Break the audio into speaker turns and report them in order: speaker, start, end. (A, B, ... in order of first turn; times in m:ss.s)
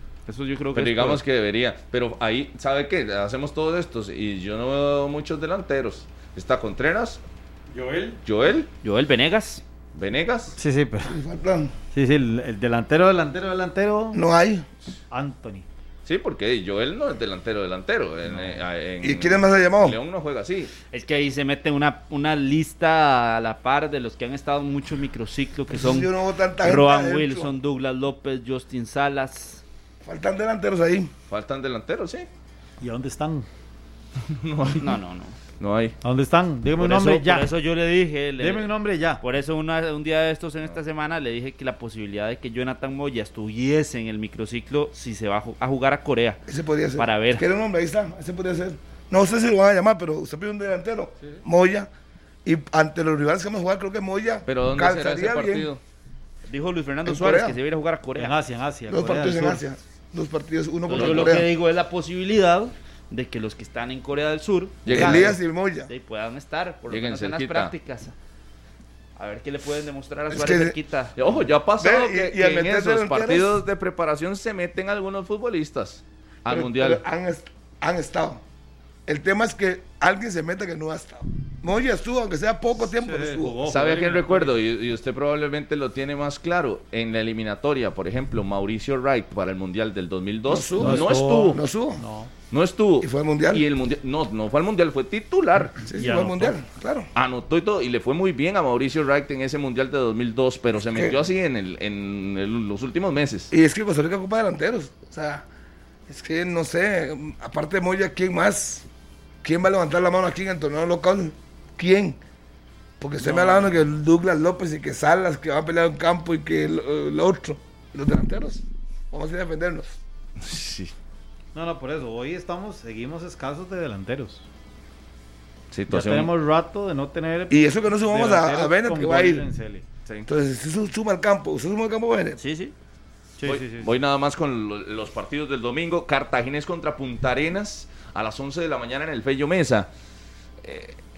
0:00.3-0:01.2 A
0:00.7-0:07.2 B
0:07.7-0:08.2 C
0:08.2-0:08.7 B
0:08.8-0:09.6 A
0:09.9-0:10.6 B
0:10.6-0:11.2 C
0:11.1-0:11.7 D
0:11.9-0:14.2 C
0:14.1-0:14.7 D
0:15.1-0:15.7 C
0:16.0-0:20.7 B
0:18.3-0:18.6 C
0:19.0-0:20.0 D
0:20.9-0:29.6 A
0:25.7-0:27.5 D
0:30.0-0:31.1 D
0:31.3-0:32.3 B
0:32.8-0:33.5 C
0:34.2-0:35.0 B
0:34.8-0:35.4 A
0:35.6-0:36.0 B
0:36.0-0:37.5 C
0:36.8-0:46.4 A
0:38.4-0:39.2 C
0:46.5-0:51.9 D
0:47.0-0:47.4 A
0:52.4-0:55.7 D
0:54.5-0:55.8 B
0:56.5-0:58.3 A
0:57.0-0:57.6 D
0:58.2-0:59.6 C
0:58.9-1:01.5 D
1:00.9-1:08.2 A
1:00.9-1:01.4 B
1:04.8-1:05.4 B
1:04.9-1:05.9 D
1:06.9-1:07.7 B
1:09.2-1:11.2 A
1:10.3-1:10.8 D
1:11.2-1:17.0 B
1:11.8-1:13.6 D
1:16.5-1:18.4 D
1:19.1-1:23.6 D
1:22.8-1:24.6 C
1:23.6-1:31.6 B
1:30.5-1:32.0 D
1:30.8-1:32.3 C
1:32.5-1:35.8 B
1:33.0-1:33.6 D
1:35.9-1:37.1 D
1:35.9-1:36.6 C
1:37.2-1:43.5 B
1:43.5-1:45.5 D
1:46.1-1:48.9 D
1:49.4-1:52.2 D
1:53.0-2:00.0 D
1:53.2-1:53.7 B
2:00.4-2:00.9 B
2:01.5-2:04.4 C
2:05.7-2:06.3 B
2:05.9-2:09.8 C
2:07.5-2:09.5 D
2:10.3-2:12.4 D
2:12.4-2:12.7 A
2:13.4-2:13.9 C
2:13.4-2:19.9 B
2:20.6-2:21.0 B